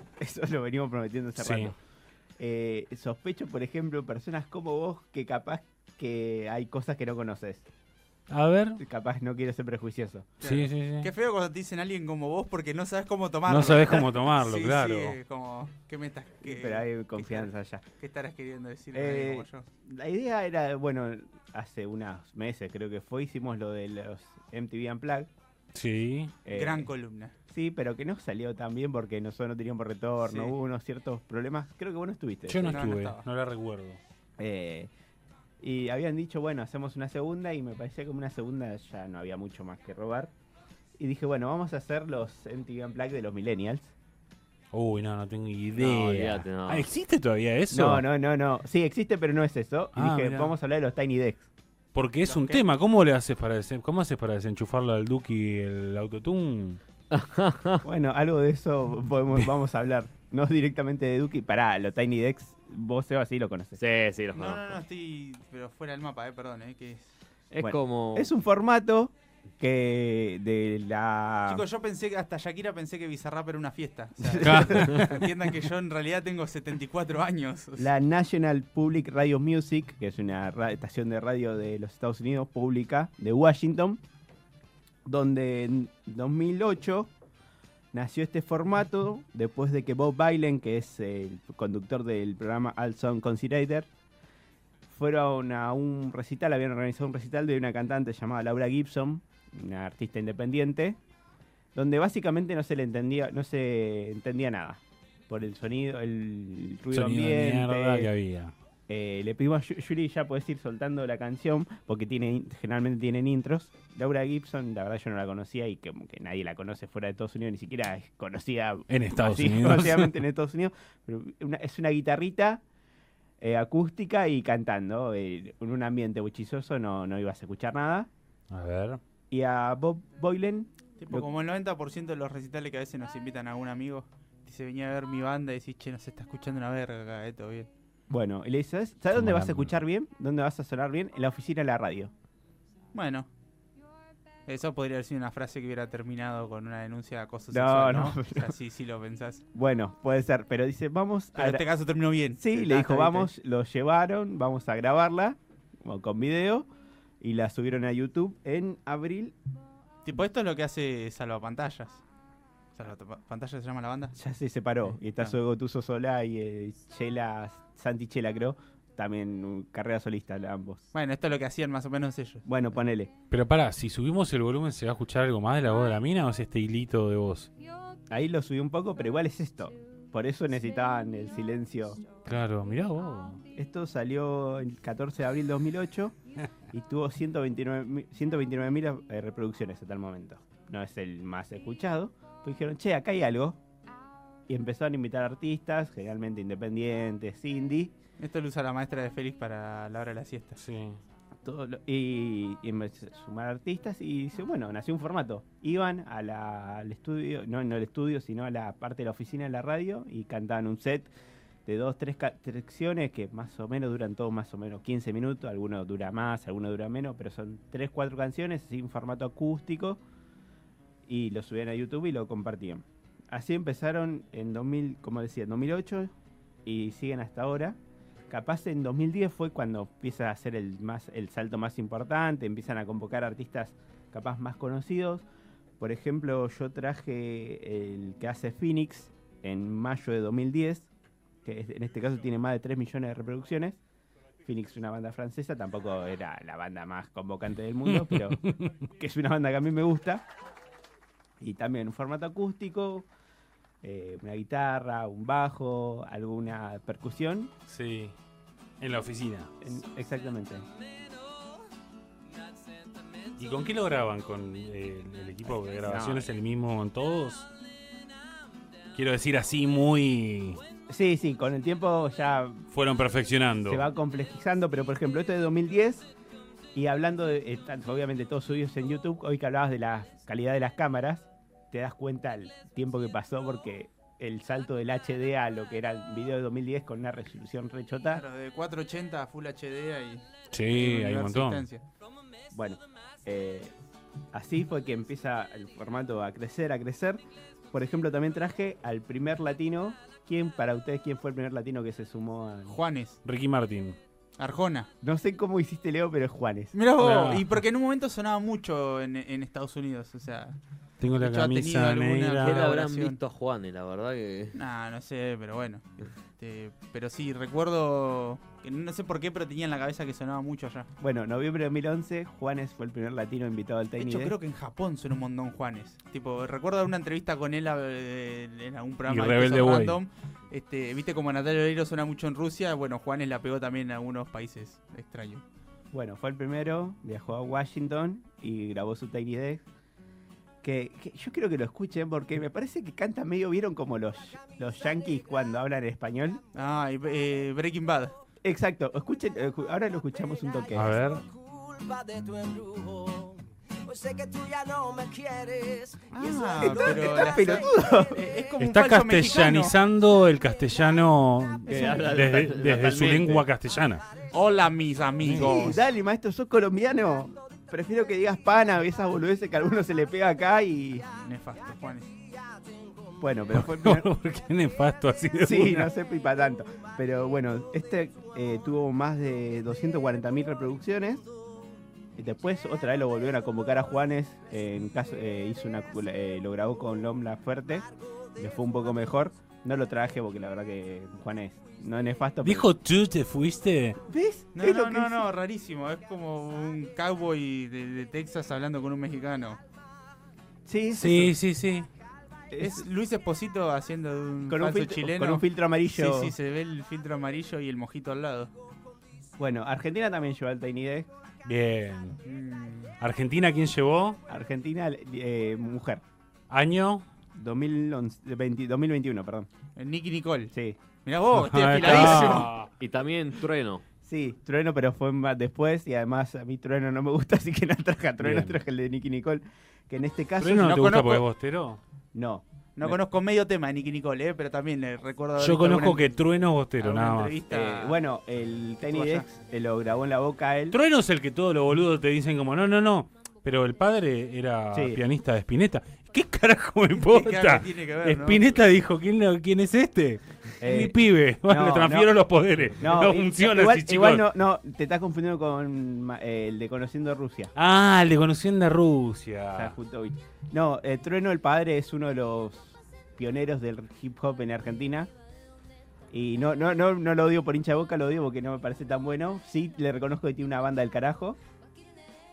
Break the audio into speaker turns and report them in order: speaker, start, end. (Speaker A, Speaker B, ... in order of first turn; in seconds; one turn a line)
Speaker A: 0.2-1.7
Speaker B: 1.4-1.7
Speaker A: 2.4-7.7
Speaker B: 8.3-8.8
Speaker A: 8.8-10.3
Speaker C: 10.4-19.6
Speaker B: 10.4-11.1
Speaker B: 13.5-15.2
Speaker A: 16.4-17.8
Speaker A: 18.9-25.3
Speaker B: 25.7-26.3
Speaker A: 26.4-26.9
Speaker C: 26.5-27.3
Speaker A: 27.5-32.9
Speaker C: 30.2-30.5
Speaker B: 32.5-34.0
Speaker C: 32.6-33.2
Speaker A: 34.4-34.9
Speaker A: 35.6-40.3
Speaker A: 41.0-43.9
Speaker B: 44.7-48.0
Speaker D: 45.8-46.9
Speaker A: 47.7-51.5
Speaker B: 50.0-50.5
Speaker B: 51.9-56.8
Speaker C: 52.2-52.6
Speaker D: 57.1-57.8
Speaker A: 57.8-63.8
Speaker D: 63.8-64.8
Speaker C: 64.3-67.1
Speaker D: 67.5-68.3
Speaker A: 67.6-71.6
Speaker C: 71.5-77.9
Speaker A: 74.2-75.0
Speaker B: 74.4-75.2
Speaker A: 77.8-84.0
Speaker A: 85.1-87.1
Speaker A: 87.9-93.9
Speaker A: 94.9-101.0
Speaker A: 101.8-108.1
Speaker B: 106.9-108.5
Speaker A: 108.9-122.6
Speaker B: 118.9-120.2
Speaker A: 123.4-128.1
Speaker B: 128.5-129.0
Speaker A: 129.3-131.3
Speaker C: 131.0-137.7
Speaker A: 138.1-142.1
Speaker B: 139.1-139.7
Speaker C: 142.9-143.3
Speaker C: 144.5-149.4
Speaker A: 147.5-148.5
Speaker A: 149.5-151.6
Speaker C: 151.3-153.3
Speaker A: 152.4-156.7
Speaker A: 157.2-159.3
Speaker C: 160.0-162.0
Speaker C: 162.7-164.1
Speaker A: 164.1-170.8
Speaker C: 164.8-165.3
Speaker C: 170.9-172.4
Speaker A: 172.4-173.1
Speaker B: 173.3-177.5
Speaker A: 178.1-182.0
Speaker B: 182.2-183.4
Speaker A: 183.5-186.2
Speaker A: 186.7-193.6
Speaker A: 194.5-197.9
Speaker C: 198.2-200.6
Speaker B: 200.6-201.0
Speaker A: 201.4-211.1
Speaker A: 211.7-220.0
Speaker A: 221.1-226.1
Speaker A: 226.6-227.8
Speaker A: 228.3-235.2
Speaker A: 235.8-240.9
Speaker A: 241.4-243.8
Speaker A: 244.4-250.2
Speaker B: 247.8-248.8
Speaker A: 251.4-253.1
Speaker A: 253.8-257.5
Speaker B: 257.7-258.1
Speaker B: 258.8-259.5
Speaker A: 259.6-260.6
Speaker B: 263.4-267.5
Speaker A: 265.5-266.3
Speaker B: 268.9-270.6
Speaker A: 270.9-272.7
Speaker B: 272.7-273.9
Speaker A: 273.6-276.1
Speaker A: 276.8-288.2
Speaker C: 288.1-291.8
Speaker B: 290.5-291.6
Speaker A: 292.5-293.7
Speaker A: 294.3-302.8
Speaker C: 302.7-303.2
Speaker B: 303.2-304.0
Speaker C: 304.4-304.9
Speaker A: 305.0-306.8
Speaker C: 306.7-310.6
Speaker B: 307.0-307.5
Speaker B: 311.0-312.7
Speaker C: 311.1-313.2
Speaker D: 312.4-314.6
Speaker C: 314.5-320.9
Speaker A: 321.0-324.3
Speaker C: 324.0-335.4
Speaker B: 329.1-330.0
Speaker A: 335.9-339.6
Speaker A: 340.6-346.4
Speaker C: 346.5-348.1
Speaker A: 348.4-351.0
Speaker B: 350.7-351.2
Speaker E: 351.4-353.3
Speaker E: 353.9-356.0
Speaker C: 356.1-359.8
Speaker A: 356.1-358.2
Speaker B: 358.6-364.1
Speaker D: 361.7-363.4
Speaker A: 361.7-362.0
Speaker C: 364.3-365.8
Speaker B: 365.2-365.7
Speaker A: 365.3-371.1
Speaker C: 371.1-372.1
Speaker A: 373.2-374.1
Speaker B: 373.5-375.9
Speaker A: 375.4-381.2
Speaker A: 382.2-392.7
Speaker B: 392.4-394.0
Speaker A: 394.1-395.2
Speaker C: 394.6-399.6
Speaker A: 400.6-401.3
Speaker B: 400.9-401.9
Speaker A: 402.5-402.9
Speaker C: 402.6-408.5
Speaker A: 404.4-406.3
Speaker A: 409.4-411.1
Speaker B: 411.4-412.2
Speaker C: 412.2-412.9
Speaker B: 413.0-414.2
Speaker A: 414.3-416.0
Speaker B: 416.5-417.1
Speaker A: 417.4-419.5
Speaker C: 419.8-420.5
Speaker A: 420.5-420.8
Speaker C: 421.1-422.5
Speaker B: 421.3-422.7
Speaker A: 421.8-422.5
Speaker D: 422.8-423.8
Speaker A: 424.0-430.8
Speaker B: 428.2-428.6
Speaker B: 430.4-431.8
Speaker C: 430.6-431.2
Speaker A: 432.1-433.0
Speaker C: 432.8-436.1
Speaker B: 435.4-437.4
Speaker C: 436.8-438.0
Speaker A: 437.5-440.8
Speaker C: 438.8-439.3
Speaker B: 440.7-454.2
Speaker A: 444.7-445.0
Speaker C: 446.9-448.5
Speaker A: 450.6-452.1
Speaker A: 452.8-457.5
Speaker B: 457.6-459.7
Speaker A: 459.5-465.1
Speaker A: 466.1-471.4